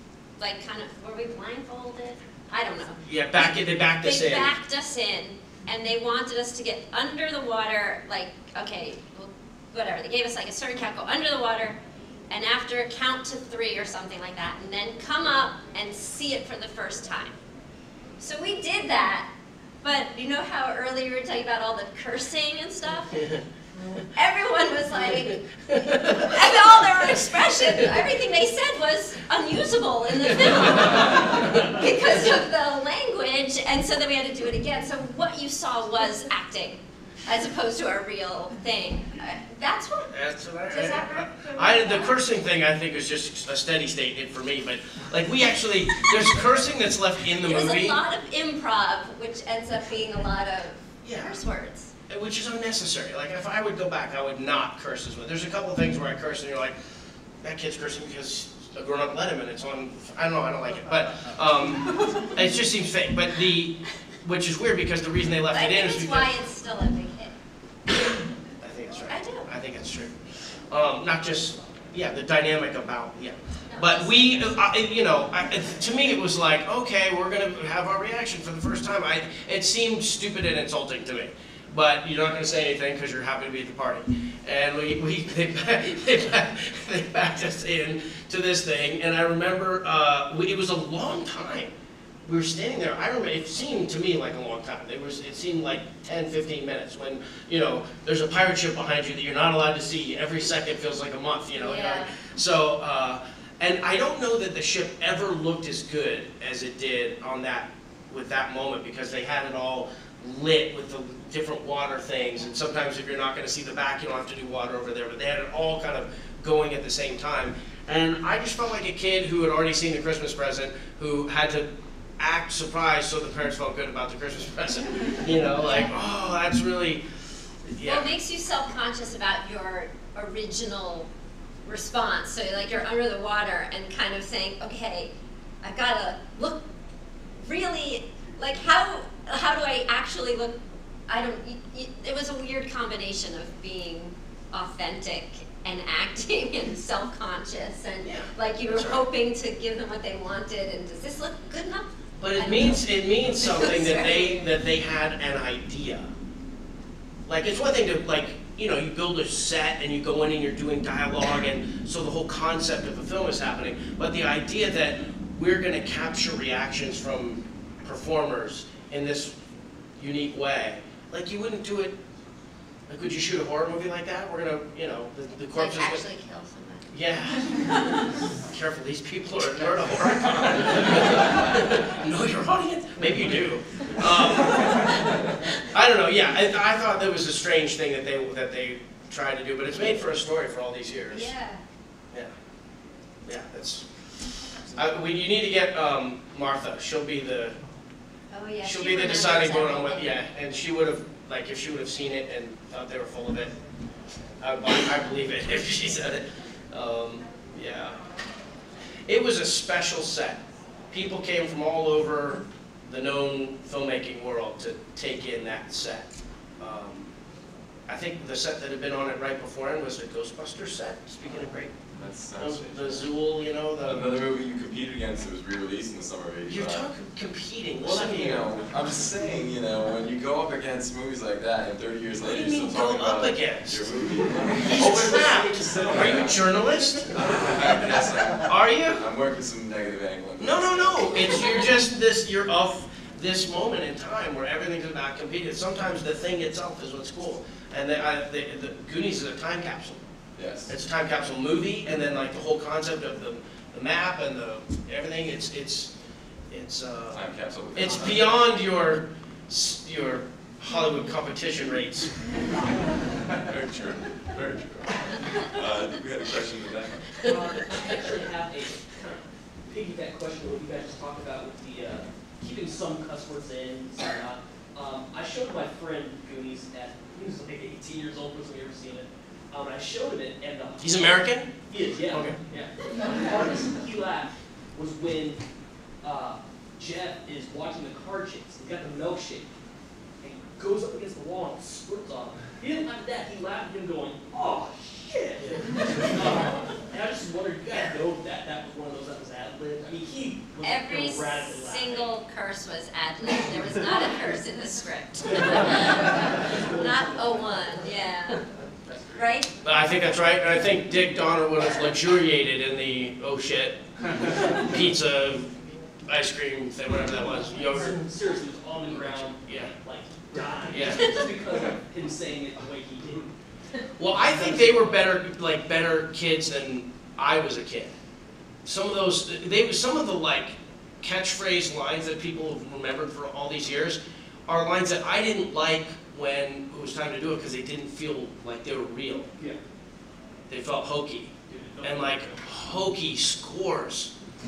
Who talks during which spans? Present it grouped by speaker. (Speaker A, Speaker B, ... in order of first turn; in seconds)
Speaker A: 0.4-11.8, 12.3-17.4, 18.2-19.3, 19.8-23.2, 24.1-40.1, 40.7-42.1, 47.4-51.9, 65.5-67.3, 69.1-69.5, 73.7-74.5, 101.6-102.1, 125.6-125.9, 127.8-131.1, 131.7-136.6, 137.4-154.5, 175.6-176.9, 191.1-191.6, 198.3-200.2, 300.6-308.4, 309.1-309.5
Speaker B: 3.0-4.5, 25.7-26.4, 40.1-48.0, 51.0-51.4, 52.1-56.8, 57.4-66.3, 68.6-91.7, 92.2-128.1, 148.0-149.0, 152.2-156.1, 157.3-169.4, 170.0-172.0, 172.9-176.1, 176.9-177.6, 178.5-185.0, 185.6-191.3, 193.2-194.0, 194.7-197.6, 198.6-203.5, 204.4-208.1, 209.1-217.1, 217.9-221.8, 222.4-224.2, 226.5-228.6, 232.2-233.9, 234.5-237.6, 238.4-239.0, 240.4-250.1, 250.7-255.9, 256.5-262.3, 280.8-282.4, 309.6-313.8, 314.5-315.5, 316.1-318.0, 319.1-319.7, 320.7-321.2, 324.0-327.9, 328.6-339.3, 340.5-344.1
Speaker C: 221.9-223.1, 223.8-226.9, 227.8-241.4, 250.4-250.7, 257.1-258.3, 265.4-267.2
Speaker D: 267.3-285.4, 286.0-289.5, 290.2-302.1, 306.5-307.8, 308.6-309.1, 317.8-323.3, 324.1-325.1, 341.5-342.4